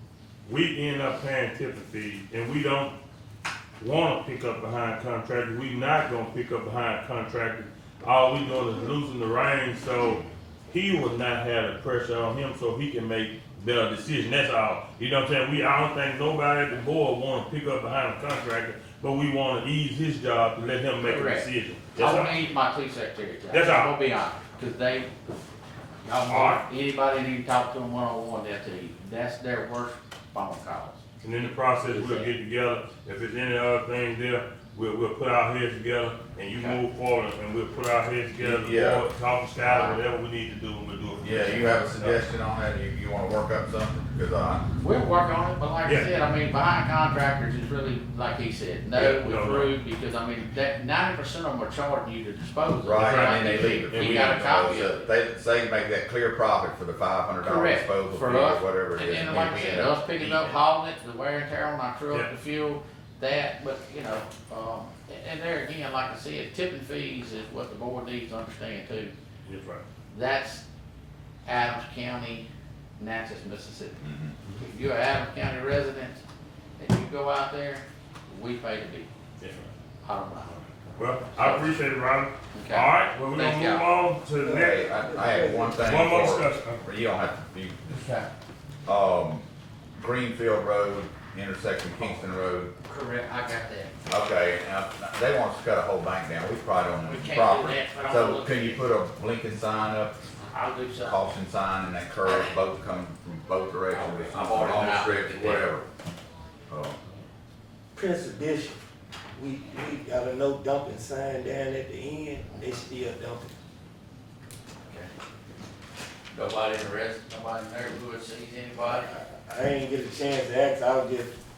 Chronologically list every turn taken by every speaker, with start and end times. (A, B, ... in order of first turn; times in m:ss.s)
0:00.4-0:02.9 A
0:03.8-0:22.4 A
0:21.0-0:25.1 B
0:23.5-0:23.9 A
0:26.0-0:31.0 B
0:26.3-0:26.6 A
0:31.2-0:42.2 A
0:31.8-0:32.3 B
0:36.5-0:36.8 B
0:38.4-0:39.1 C
0:39.6-0:40.0 B
0:41.2-0:44.7 C
0:44.8-0:55.1 B
0:45.8-0:46.1 A
0:48.9-0:49.7 A
0:52.8-1:00.6 C
0:53.0-0:54.5 A
0:57.4-1:09.1 B
1:09.4-1:09.8 A
1:10.1-1:10.6 B
1:11.4-1:16.2 B
1:14.0-1:14.3 C
1:16.8-1:19.1 B
1:19.4-1:19.7 A
1:20.0-1:20.7 B
1:21.0-1:24.8 A
1:21.3-1:21.7 B
1:22.5-1:23.8 B
1:24.4-1:26.1 D
1:24.5-1:28.0 C
1:25.8-1:26.8 A
1:27.9-1:28.3 B
1:28.8-1:29.4 C
1:30.0-1:32.7 C
1:32.8-1:34.0 B
1:34.1-1:40.2 C
1:37.0-1:38.9 B
1:40.5-1:41.3 B
1:41.0-1:45.8 C
1:42.2-1:42.6 B
1:43.9-1:45.8 B
1:46.7-1:47.0 C
1:47.9-1:53.5 D
1:54.8-1:55.1 B
1:56.3-1:59.1 B
1:58.8-2:01.3 D